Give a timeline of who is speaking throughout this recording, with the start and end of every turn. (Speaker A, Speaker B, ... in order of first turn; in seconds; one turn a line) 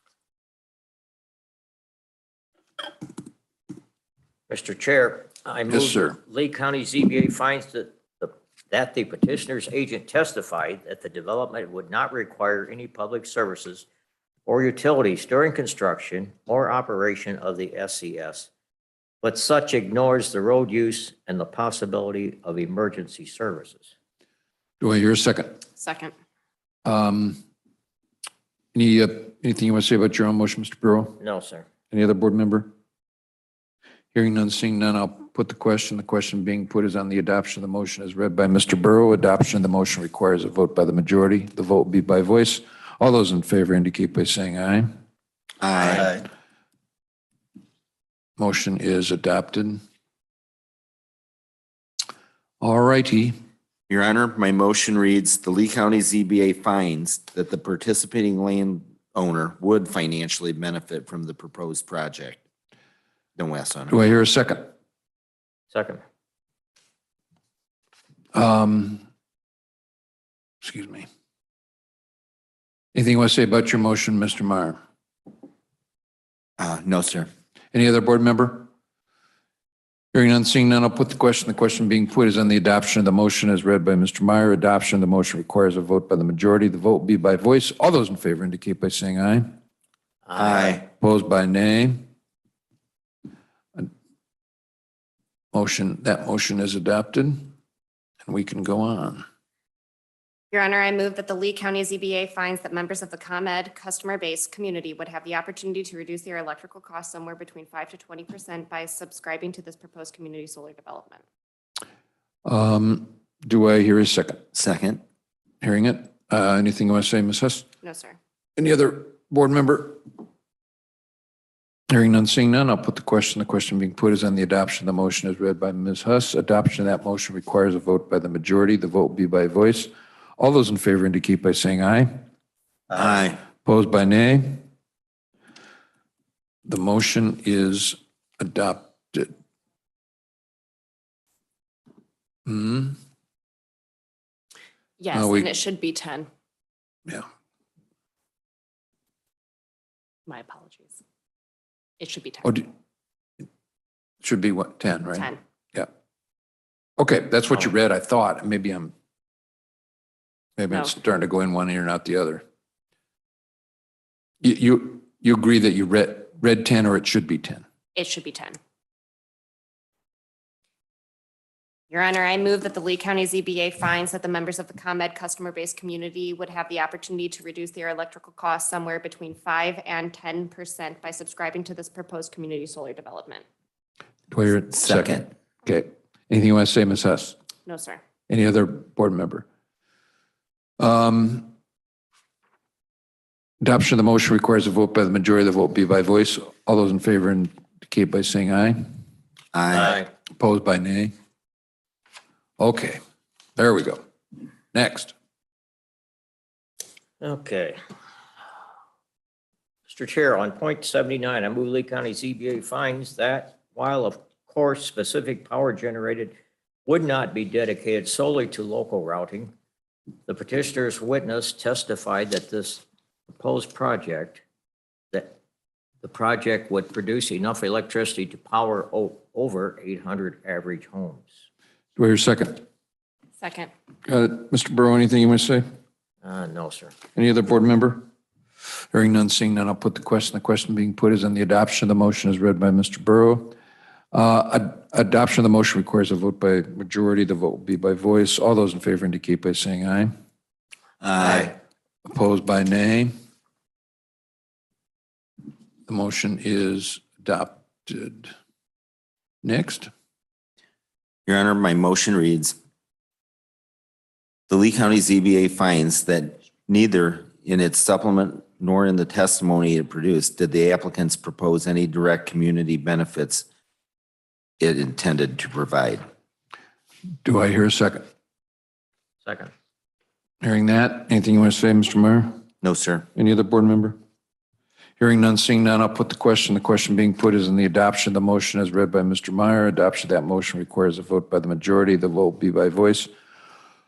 Speaker A: 4.5-13.9
Speaker B: 5.7-6.2
Speaker A: 14.5-18.5
Speaker A: 19.2-23.9
Speaker B: 24.8-25.6
Speaker C: 25.8-26.1
Speaker B: 26.9-27.4
Speaker B: 28.7-31.2
Speaker A: 31.2-31.7
Speaker B: 31.9-32.7
Speaker B: 34.1-44.9
Speaker D: 45.6-46.3
Speaker B: 48.4-49.8
Speaker B: 52.6-53.4
Speaker D: 53.9-62.4
Speaker D: 63.4-64.0
Speaker B: 63.9-64.7
Speaker A: 65.7-66.0
Speaker B: 68.3-69.0
Speaker B: 70.6-71.1
Speaker B: 72.9-74.8
Speaker D: 76.6-77.3
Speaker B: 77.7-78.7
Speaker B: 80.1-89.5
Speaker A: 90.3-90.7
Speaker D: 90.4-90.9
Speaker B: 91.0-92.0
Speaker B: 95.5-97.5
Speaker B: 98.2-99.2
Speaker C: 100.5-111.2
Speaker B: 112.5-114.4
Speaker D: 114.5-115.0
Speaker B: 115.6-117.7
Speaker C: 117.8-118.2
Speaker B: 118.6-120.0
Speaker B: 121.9-132.2
Speaker D: 132.9-133.4
Speaker B: 133.6-134.6
Speaker B: 136.7-139.3
Speaker B: 142.5-143.0
Speaker C: 145.0-146.3
Speaker B: 145.1-145.5
Speaker C: 150.3-151.0
Speaker C: 152.0-152.6
Speaker B: 154.2-155.9
Speaker B: 157.0-158.9
Speaker B: 160.6-162.4
Speaker B: 164.4-167.6
Speaker C: 168.0-168.6
Speaker C: 171.9-183.4
Speaker B: 184.3-187.3
Speaker D: 184.8-185.2
Speaker C: 187.7-188.0
Speaker B: 188.3-189.4
Speaker B: 190.8-191.5
Speaker B: 193.6-198.9
Speaker D: 199.5-200.0
Speaker A: 199.7-200.1
Speaker B: 200.4-201.1
Speaker B: 202.6-203.0
Speaker B: 203.6-204.0
Speaker B: 204.7-205.1
Speaker A: 207.2-207.8
Speaker A: 209.9-216.3
Speaker A: 216.9-219.5
Speaker A: 220.3-224.4
Speaker A: 225.1-225.4
Speaker A: 226.0-231.3
Speaker B: 232.0-232.6
Speaker C: 233.4-233.7
Speaker B: 234.1-235.6
Speaker A: 236.2-237.0
Speaker B: 237.2-238.0
Speaker B: 238.9-243.5
Speaker B: 244.1-250.1
Speaker D: 251.0-251.6
Speaker B: 252.1-253.1
Speaker B: 255.9-258.3
Speaker B: 259.4-259.9
Speaker D: 261.3-262.6
Speaker D: 264.5-273.4
Speaker D: 274.6-276.1
Speaker B: 277.2-278.0
Speaker A: 279.2-279.5
Speaker B: 280.4-282.4
Speaker D: 282.6-283.1
Speaker B: 283.1-284.0
Speaker B: 285.0-293.1